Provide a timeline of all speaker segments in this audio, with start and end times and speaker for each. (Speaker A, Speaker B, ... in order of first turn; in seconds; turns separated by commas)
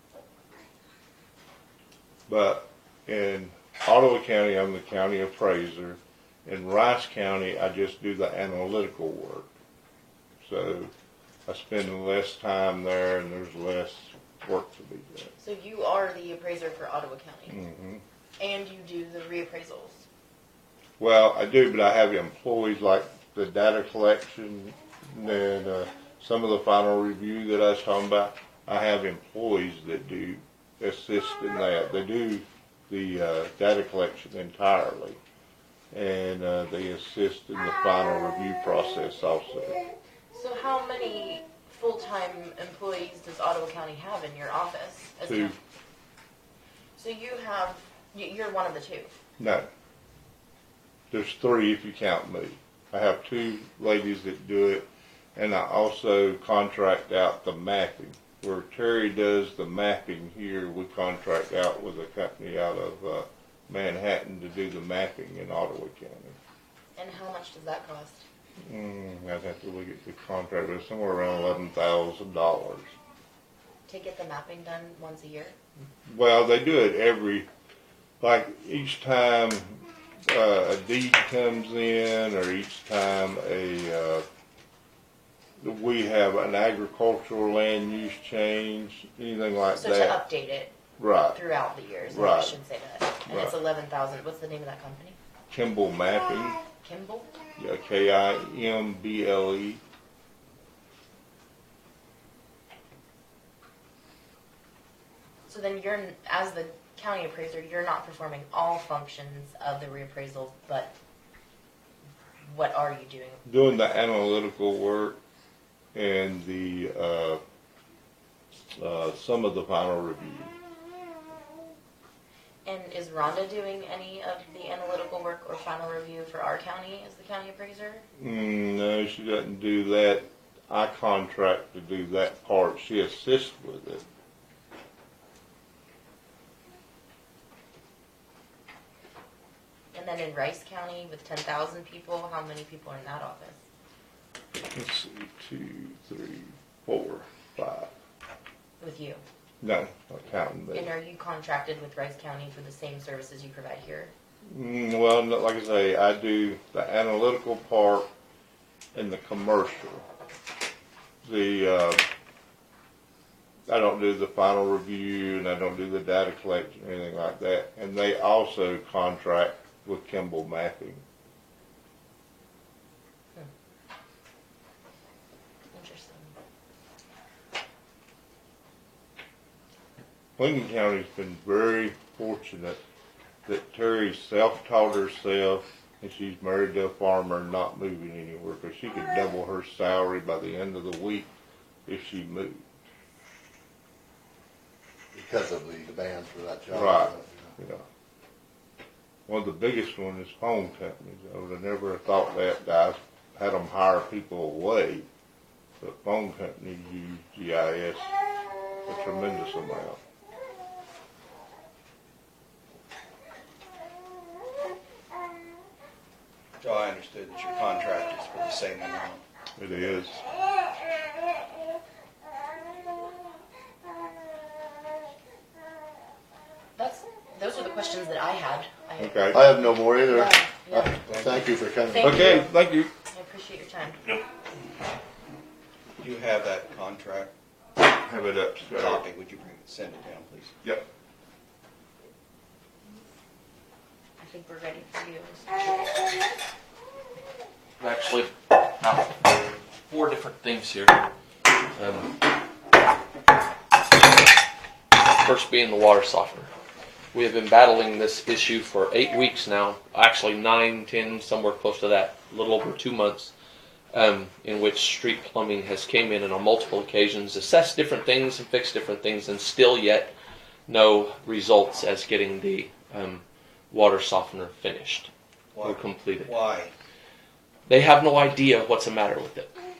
Speaker A: 2.3-9.5, Speaker A: 10.4-10.9, Speaker A: 11.5-15.3, Speaker B: 15.4-17.6, Speaker A: 17.5-18.0, Speaker B: 18.4-20.0, Speaker A: 21.0-35.2, Speaker A: 35.9-39.8, Speaker B: 40.3-45.6, Speaker A: 45.3-45.5, Speaker B: 47.0-49.1, Speaker A: 49.4-49.7, Speaker A: 51.1-66.4, Speaker B: 67.0-68.2, Speaker A: 68.6-72.9, Speaker B: 73.9-75.5, Speaker A: 76.0-77.5, Speaker A: 78.2-84.2, Speaker A: 85.6-90.2, Speaker B: 89.8-90.7, Speaker A: 91.0-91.4, Speaker B: 91.3-95.2, Speaker A: 92.1-92.5, Speaker A: 93.3-93.5, Speaker A: 95.5-96.6, Speaker B: 96.8-97.3, Speaker A: 97.6-99.8, Speaker B: 105.5-110.9, Speaker B: 112.5-113.4, Speaker A: 113.5-115.2, Speaker A: 115.9-117.4, Speaker A: 118.7-120.5, Speaker B: 122.6-128.0, Speaker A: 128.2-134.0, Speaker B: 139.9-143.6, Speaker A: 144.7-147.9, Speaker B: 148.8-149.2, Speaker A: 149.6-150.9, Speaker B: 150.7-154.1, Speaker A: 154.5-158.1, Speaker A: 158.9-160.0, Speaker A: 161.2-162.0, Speaker A: 163.7-171.0, Speaker B: 175.7-176.3, Speaker A: 180.4-182.8, Speaker A: 183.4-191.3, Speaker A: 191.8-192.6, Speaker C: 195.1-197.5, Speaker A: 196.7-197.8, Speaker A: 199.3-205.1, Speaker A: 205.8-208.1, Speaker A: 208.8-210.0, Speaker D: 216.6-219.2, Speaker A: 219.6-220.2, Speaker B: 226.8-229.4, Speaker A: 229.0-229.4, Speaker C: 229.3-232.4, Speaker B: 230.1-231.0, Speaker D: 231.0-231.5, Speaker B: 231.9-232.5, Speaker A: 232.0-232.9, Speaker B: 233.1-234.0, Speaker D: 236.0-237.3, Speaker A: 237.9-239.0, Speaker D: 238.7-240.6, Speaker B: 244.2-246.1, Speaker E: 247.8-249.2, Speaker E: 249.9-251.0, Speaker E: 251.7-252.1, Speaker E: 254.9-256.5, Speaker E: 257.1-263.3, Speaker E: 263.9-270.1, Speaker E: 270.7-275.1, Speaker D: 275.5-276.7, Speaker E: 275.6-276.3, Speaker E: 277.6-279.5